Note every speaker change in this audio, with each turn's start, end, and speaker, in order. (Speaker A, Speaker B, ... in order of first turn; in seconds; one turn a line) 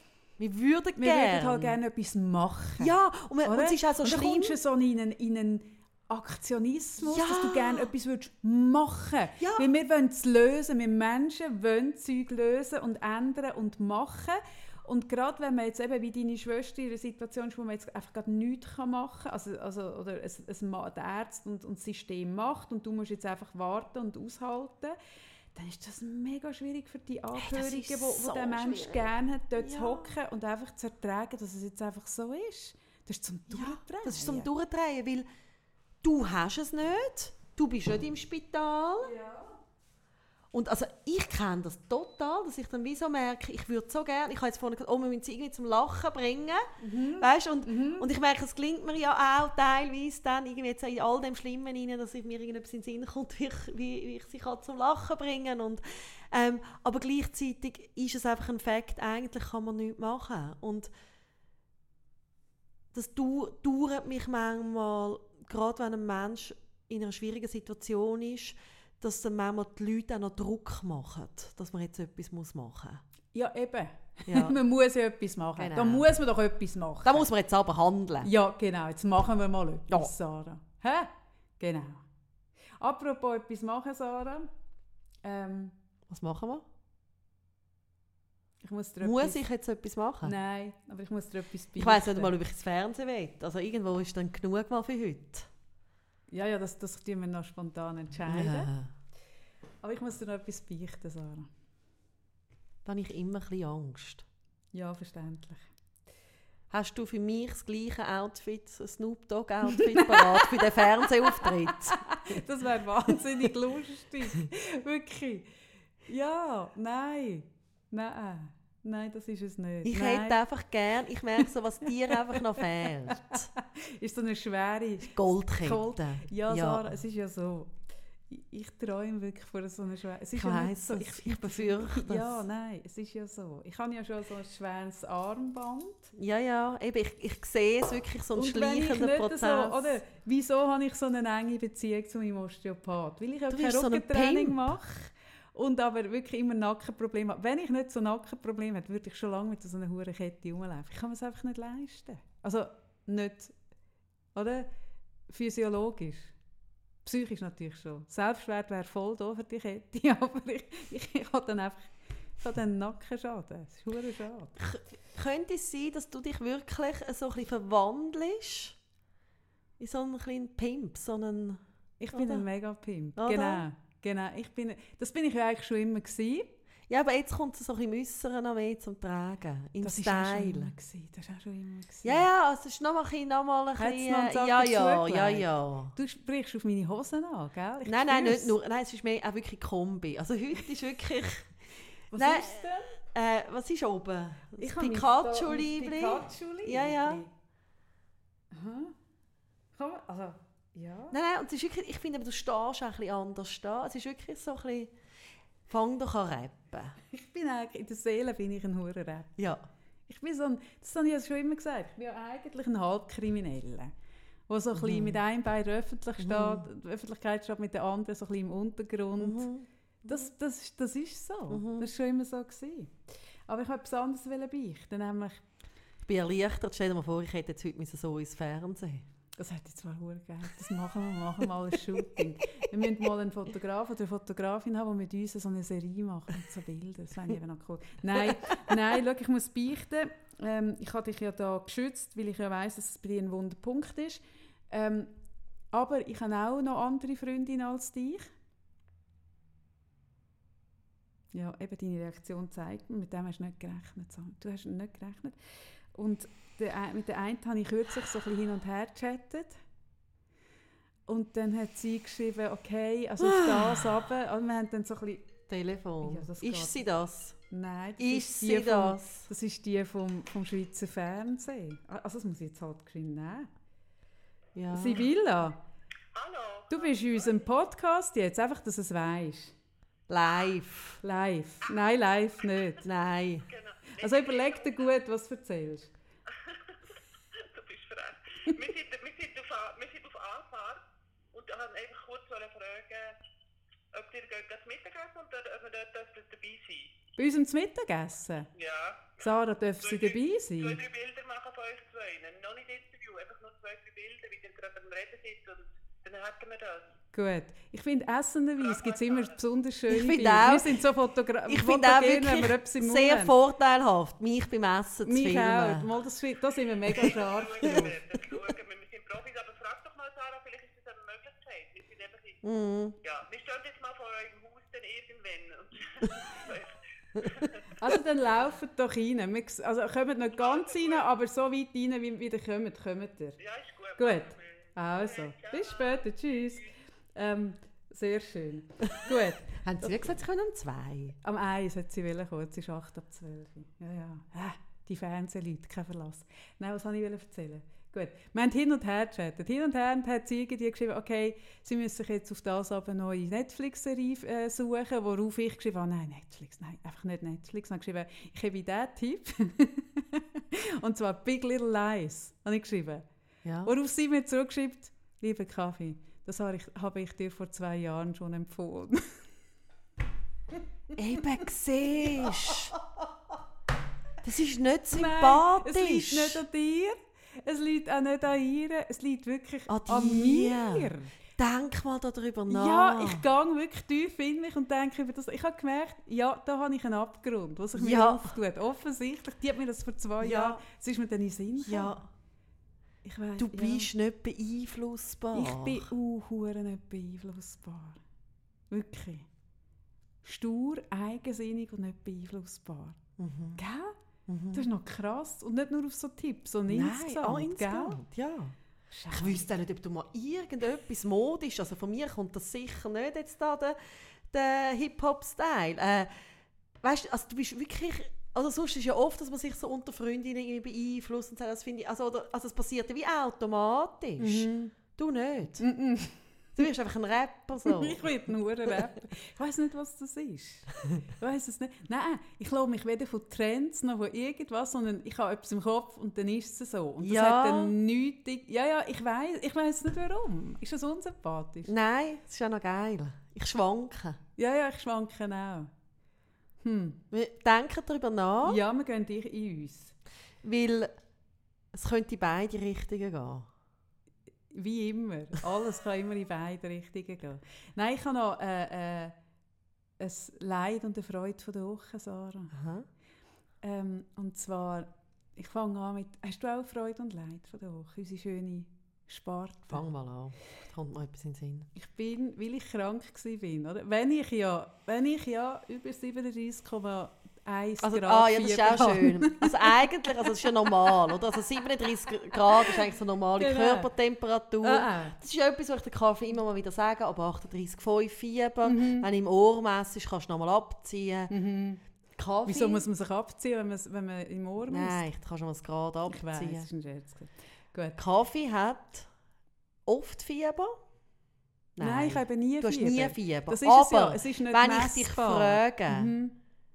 Speaker A: 0.4-1.8
Speaker B: 1.0-2.9
Speaker A: 2.8-4.6
Speaker B: 3.4-25.0
Speaker A: 7.0-7.9
Speaker A: 9.4-9.7
Speaker B: 25.5-34.5
Speaker A: 27.3-30.1
Speaker A: 33.5-35.2
Speaker A: 36.0-39.1
Speaker B: 39.0-39.6
Speaker A: 40.5-60.9
Speaker B: 46.8-48.1
Speaker A: 62.9-73.0
Speaker B: 73.3-77.2
Speaker A: 74.2-74.6
Speaker A: 75.6-76.1
Speaker A: 77.0-78.3
Speaker B: 78.2-82.0
Speaker B: 82.8-84.5
Speaker B: 85.2-85.7
Speaker A: 86.1-86.6
Speaker B: 88.6-89.4
Speaker A: 89.0-90.3
Speaker B: 90.2-92.3
Speaker A: 91.8-95.5
Speaker B: 96.3-98.7
Speaker A: 98.3-98.9
Speaker B: 99.8-101.5
Speaker A: 102.8-104.2
Speaker B: 104.7-105.7
Speaker A: 106.7-112.4
Speaker B: 109.8-115.5
Speaker B: 116.0-120.4
Speaker A: 119.8-123.5
Speaker B: 122.1-127.7
Speaker A: 125.0-126.9
Speaker B: 128.3-136.1
Speaker A: 130.3-132.4
Speaker A: 136.1-139.9
Speaker B: 138.3-153.6
Speaker A: 143.5-144.6
Speaker B: 154.3-154.7
Speaker B: 155.3-156.3
Speaker B: 157.0-164.5
Speaker A: 164.6-168.8
Speaker A: 169.8-171.6
Speaker B: 172.0-176.5
Speaker A: 172.1-172.4
Speaker A: 173.2-173.6
Speaker A: 176.9-180.7
Speaker B: 179.8-182.3
Speaker A: 182.0-185.9
Speaker B: 183.8-188.5
Speaker A: 187.8-191.6
Speaker A: 192.1-197.2
Speaker B: 192.1-192.9
Speaker B: 194.6-197.3
Speaker B: 198.5-198.9
Speaker B: 199.7-201.1
Speaker A: 201.1-204.9
Speaker A: 205.7-207.0
Speaker B: 207.1-209.4
Speaker A: 209.4-209.6
Speaker B: 210.1-213.9
Speaker B: 214.5-219.5
Speaker A: 214.7-215.2
Speaker A: 216.2-216.6
Speaker A: 219.2-219.7
Speaker B: 220.0-225.4
Speaker A: 221.5-221.9
Speaker A: 226.0-229.0
Speaker B: 229.3-245.1
Speaker B: 245.7-248.3
Speaker B: 251.3-255.4
Speaker B: 255.9-259.6
Speaker B: 261.1-265.3
Speaker A: 263.2-264.0
Speaker A: 265.5-267.4
Speaker B: 266.0-266.8
Speaker B: 267.5-273.5
Speaker A: 268.0-269.3
Speaker A: 274.6-275.1
Speaker B: 274.7-275.6
Speaker C: 276.1-277.3
Speaker B: 276.7-279.5
Speaker A: 280.1-281.0
Speaker B: 281.0-282.8
Speaker A: 282.8-283.5
Speaker C: 283.5-284.9
Speaker B: 284.0-285.9
Speaker C: 286.4-290.8
Speaker C: 291.3-293.2
Speaker C: 293.9-296.9
Speaker B: 297.2-298.5
Speaker C: 298.6-299.2
Speaker B: 299.2-300.8
Speaker C: 299.8-306.9
Speaker B: 307.1-313.3
Speaker C: 308.7-309.3
Speaker A: 309.9-310.8
Speaker A: 311.5-315.9
Speaker B: 315.0-318.0
Speaker C: 316.9-322.4
Speaker A: 322.4-322.9
Speaker C: 323.0-327.7
Speaker B: 327.8-333.4
Speaker C: 330.4-331.1
Speaker C: 333.4-336.0
Speaker B: 334.0-340.1
Speaker A: 339.6-341.2
Speaker B: 341.2-363.0
Speaker A: 363.4-363.7
Speaker B: 363.6-369.2
Speaker A: 370.9-372.7
Speaker B: 372.0-372.6
Speaker A: 374.2-376.4
Speaker B: 374.9-381.1
Speaker A: 379.7-383.2
Speaker B: 382.5-392.0
Speaker A: 387.7-388.3
Speaker A: 390.2-390.6
Speaker A: 391.6-392.1
Speaker B: 393.0-393.9
Speaker A: 393.4-395.9
Speaker B: 395.3-398.0
Speaker B: 398.7-399.3
Speaker B: 400.2-403.0
Speaker A: 403.2-403.6
Speaker B: 403.6-404.0
Speaker A: 404.3-404.7
Speaker B: 404.5-408.0
Speaker A: 406.7-408.6
Speaker B: 408.9-409.5
Speaker A: 409.1-416.3
Speaker A: 416.8-425.6
Speaker B: 424.2-424.7
Speaker B: 425.6-426.6
Speaker A: 426.6-428.1
Speaker B: 427.6-441.7
Speaker A: 437.0-437.7
Speaker A: 441.6-444.2
Speaker B: 444.4-445.7
Speaker B: 446.6-447.0
Speaker A: 447.1-448.6
Speaker B: 448.4-449.9
Speaker A: 450.4-450.9
Speaker A: 451.7-453.5
Speaker B: 454.5-459.1
Speaker B: 460.0-462.5
Speaker A: 462.5-462.9
Speaker B: 463.6-469.8
Speaker A: 469.7-471.7
Speaker B: 471.8-480.7
Speaker A: 477.8-491.3
Speaker B: 482.4-482.7
Speaker B: 483.4-483.9
Speaker B: 484.6-485.2
Speaker B: 488.6-489.1
Speaker B: 491.3-491.8
Speaker A: 492.2-492.8
Speaker B: 492.4-495.0
Speaker A: 494.6-496.7
Speaker B: 496.1-498.0
Speaker A: 497.9-499.1
Speaker A: 499.9-500.8
Speaker A: 501.8-506.1
Speaker B: 501.8-506.3